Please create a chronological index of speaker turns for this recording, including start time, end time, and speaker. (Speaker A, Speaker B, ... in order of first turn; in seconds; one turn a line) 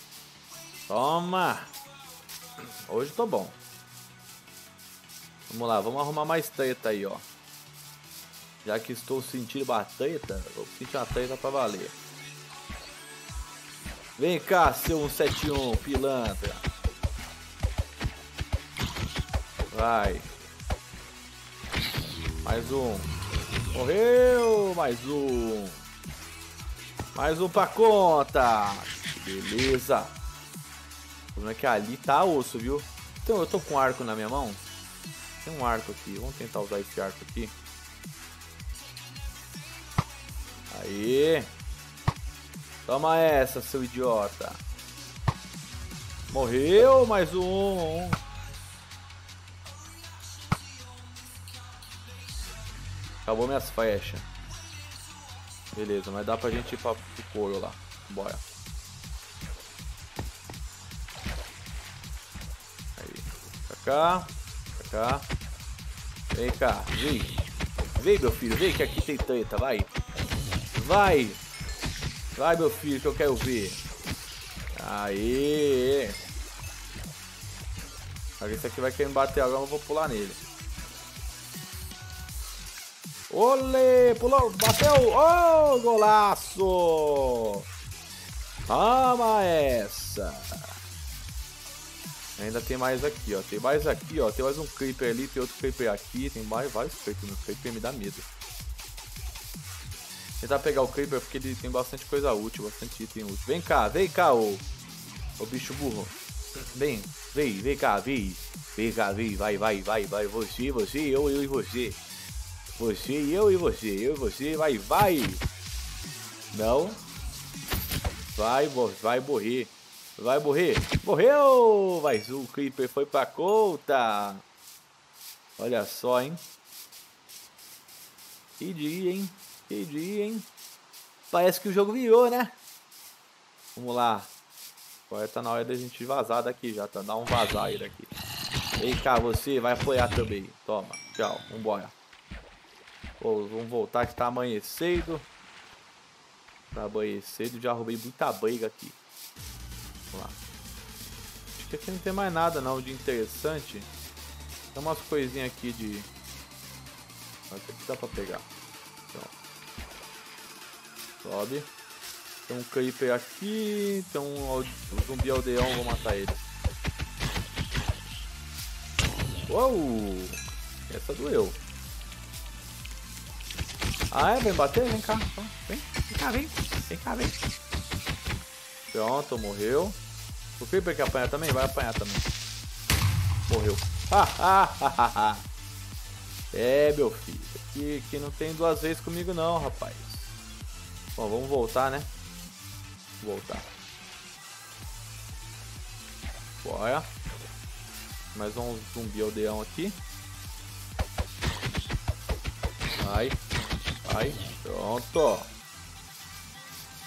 Speaker A: 0.9-1.7
Speaker A: 2.9-3.6
Speaker A: 5.5-7.2
Speaker A: 8.6-11.9
Speaker A: 14.2-16.6
Speaker A: 19.7-20.3
Speaker A: 22.4-23.1
Speaker A: 23.7-25.8
Speaker A: 27.1-30.1
Speaker A: 31.3-34.6
Speaker A: 35.4-37.5
Speaker A: 40.7-41.5
Speaker A: 42.9-44.6
Speaker A: 46.3-48.2
Speaker A: 53.2-54.2
Speaker A: 55.7-58.4
Speaker A: 63.0-65.2
Speaker A: 66.3-67.3
Speaker A: 68.0-69.9
Speaker A: 70.7-71.4
Speaker A: 72.3-73.8
Speaker A: 74.7-76.2
Speaker A: 78.4-80.4
Speaker A: 83.3-87.7
Speaker A: 88.7-90.7
Speaker A: 92.4-98.2
Speaker A: 100.4-104.6
Speaker A: 105.4-106.1
Speaker A: 106.7-112.0
Speaker A: 112.8-115.4
Speaker A: 116.5-117.0
Speaker A: 118.3-124.4
Speaker A: 125.6-126.4
Speaker A: 128.6-130.5
Speaker A: 131.3-132.5
Speaker A: 133.8-134.3
Speaker A: 135.1-138.1
Speaker A: 138.8-141.9
Speaker A: 143.2-145.3
Speaker A: 146.7-149.0
Speaker A: 150.1-150.4
Speaker A: 151.6-153.9
Speaker A: 154.7-156.1
Speaker A: 157.5-158.5
Speaker A: 161.2-161.7
Speaker A: 162.4-166.4
Speaker A: 169.5-171.6
Speaker A: 174.1-177.4
Speaker A: 178.9-180.0
Speaker A: 180.6-182.3
Speaker A: 183.5-185.4
Speaker A: 186.5-190.3
Speaker A: 191.2-192.1
Speaker A: 193.2-193.7
Speaker A: 196.6-197.1
Speaker A: 198.3-200.0
Speaker A: 203.0-203.4
Speaker A: 204.0-205.5